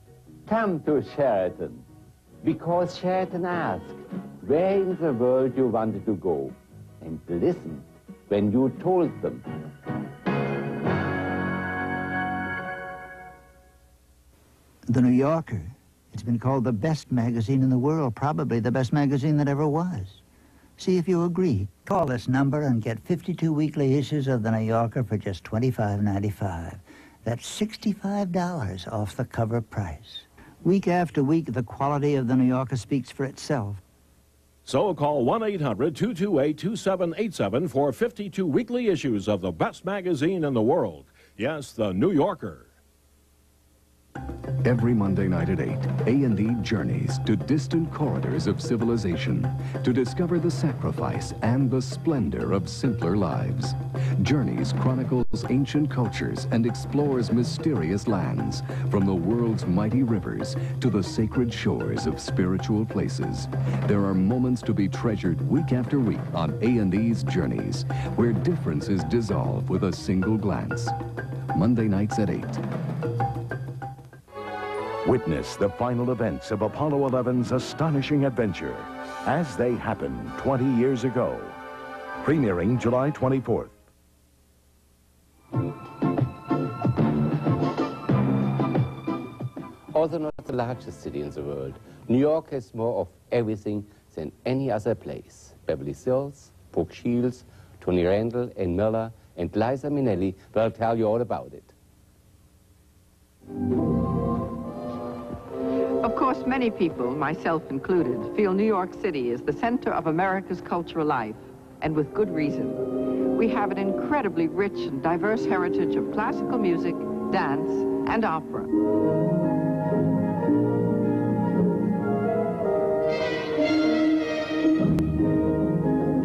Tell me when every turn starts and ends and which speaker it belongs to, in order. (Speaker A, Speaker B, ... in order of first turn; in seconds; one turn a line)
Speaker A: 0.5-1.9
Speaker A: 2.4-9.4
Speaker B: 14.9-20.2
Speaker B: 20.8-33.8
Speaker C: 34.7-42.8
Speaker D: 44.6-71.0
Speaker D: 71.5-72.6
Speaker E: 75.0-81.6
Speaker E: 82.2-83.7
Speaker A: 89.9-101.7
Speaker F: 106.0-118.7